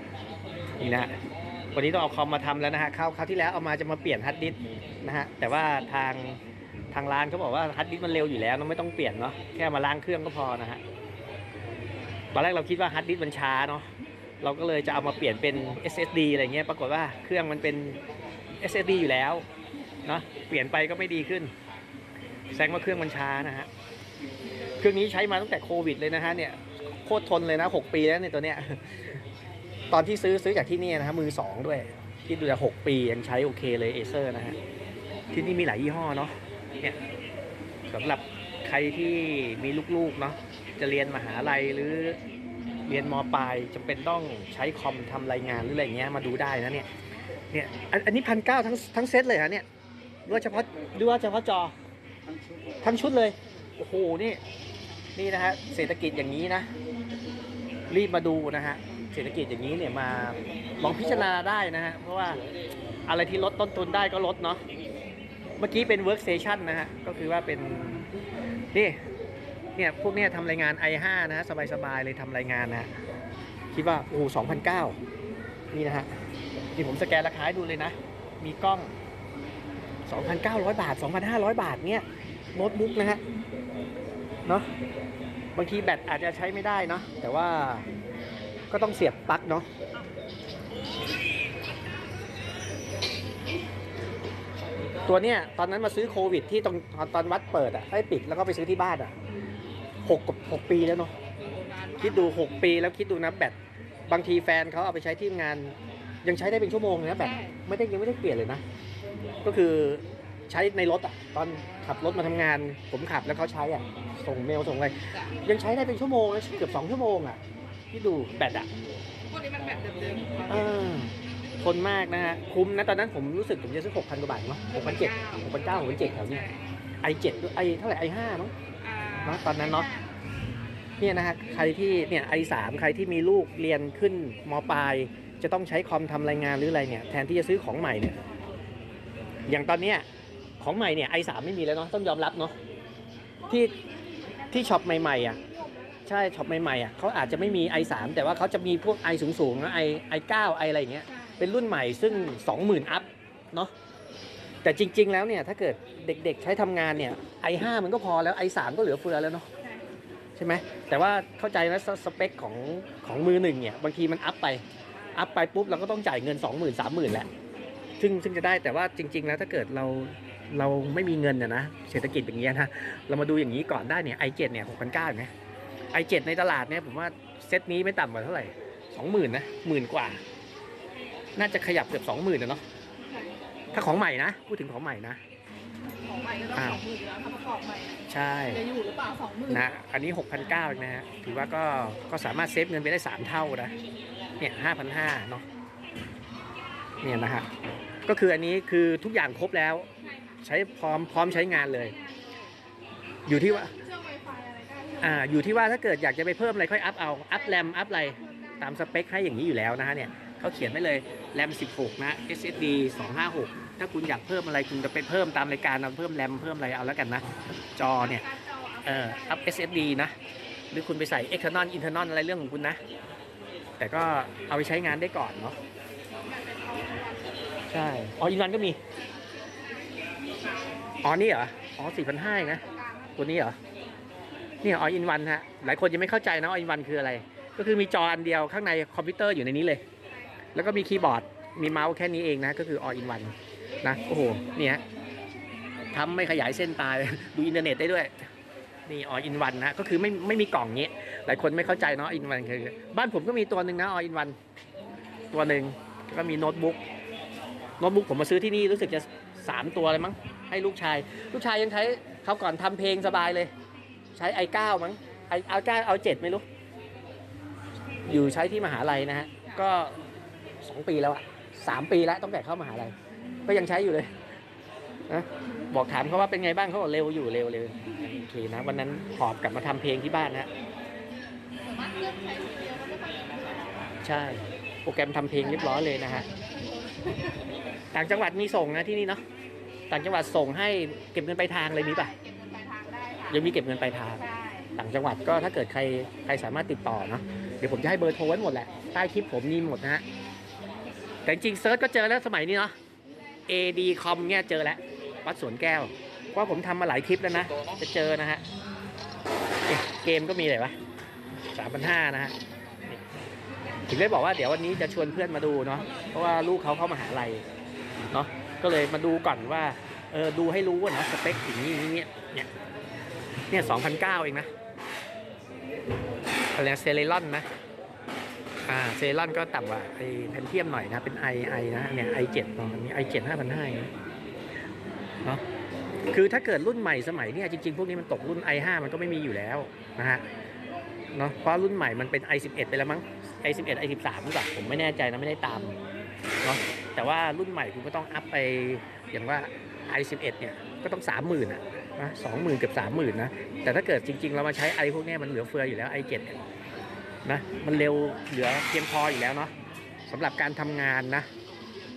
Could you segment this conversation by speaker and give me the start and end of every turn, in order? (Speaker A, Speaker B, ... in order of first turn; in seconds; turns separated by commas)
Speaker A: 0.8-1.1, Speaker A: 1.7-6.4, Speaker A: 6.9-10.8, Speaker A: 12.3-13.9, Speaker A: 14.4-18.0, Speaker A: 18.6-19.4, Speaker A: 20.1-21.5, Speaker A: 22.5-23.7, Speaker A: 24.8-29.2, Speaker A: 29.9-34.6, Speaker A: 35.3-37.0, Speaker A: 37.9-42.2, Speaker A: 42.9-46.9, Speaker A: 47.5-49.6, Speaker A: 50.3-51.7, Speaker A: 52.8-54.4, Speaker A: 55.2-56.7, Speaker A: 57.9-62.4, Speaker A: 63.1-64.6, Speaker A: 65.6-68.0, Speaker A: 68.7-69.0, Speaker A: 69.8-72.9, Speaker A: 73.7-75.0, Speaker A: 75.7-76.1, Speaker A: 76.7-78.9, Speaker A: 80.1-83.2, Speaker A: 85.5-87.8, Speaker A: 88.7-89.7, Speaker A: 95.0-99.1, Speaker A: 100.0-101.1, Speaker B: 101.5-102.3, Speaker A: 102.0-103.5, Speaker A: 104.1-108.6, Speaker B: 107.2-107.5, Speaker A: 109.4-117.4, Speaker A: 117.9-118.7, Speaker B: 119.3-120.6, Speaker A: 120.5-126.5, Speaker B: 124.8-125.6, Speaker A: 127.0-128.5, Speaker B: 128.8-130.0, Speaker A: 129.2-129.9, Speaker A: 131.0-138.2, Speaker A: 139.5-140.0, Speaker A: 140.6-142.6, Speaker A: 143.5-143.8, Speaker A: 144.5-145.4, Speaker A: 146.1-153.7, Speaker A: 154.6-159.5, Speaker A: 160.4-164.6, Speaker A: 165.1-167.3, Speaker A: 168.0-175.3, Speaker A: 175.9-180.2, Speaker A: 181.4-182.6, Speaker B: 183.0-183.4, Speaker A: 183.7-185.2, Speaker B: 186.0-189.6, Speaker A: 186.5-186.8, Speaker A: 188.1-188.6, Speaker A: 189.5-193.7, Speaker A: 194.4-195.4, Speaker A: 197.0-197.5, Speaker A: 198.1-199.9, Speaker A: 200.4-201.9, Speaker B: 201.8-202.4, Speaker A: 203.3-203.7, Speaker B: 203.3-205.2, Speaker A: 205.0-217.2, Speaker B: 208.2-208.6, Speaker A: 217.8-218.2, Speaker B: 218.1-219.4, Speaker A: 218.8-220.1, Speaker A: 220.7-222.8, Speaker A: 223.8-225.6, Speaker B: 226.2-227.7, Speaker A: 227.7-228.8, Speaker B: 230.4-231.0, Speaker A: 231.0-232.6, Speaker B: 232.6-233.1, Speaker A: 233.2-233.6, Speaker A: 234.6-239.8, Speaker A: 240.6-244.8, Speaker A: 245.9-248.3, Speaker A: 248.9-254.3, Speaker A: 255.3-256.8, Speaker A: 257.8-263.5, Speaker A: 264.1-266.4, Speaker A: 268.1-270.0, Speaker A: 270.6-272.9, Speaker A: 273.5-274.1, Speaker A: 275.1-280.5, Speaker B: 281.6-284.0, Speaker A: 284.0-286.2, Speaker A: 287.9-289.2, Speaker A: 289.9-292.1, Speaker B: 291.9-293.5, Speaker A: 293.3-300.0, Speaker B: 294.2-294.7, Speaker A: 301.2-302.8, Speaker A: 303.5-308.4, Speaker A: 309.7-310.8, Speaker A: 311.6-312.4, Speaker A: 313.9-317.4, Speaker A: 318.1-322.5, Speaker A: 323.5-324.5, Speaker A: 326.6-327.5, Speaker A: 328.7-333.9, Speaker A: 336.1-340.2, Speaker A: 341.1-345.8, Speaker A: 346.4-356.4, Speaker A: 357.2-359.5, Speaker A: 360.1-361.3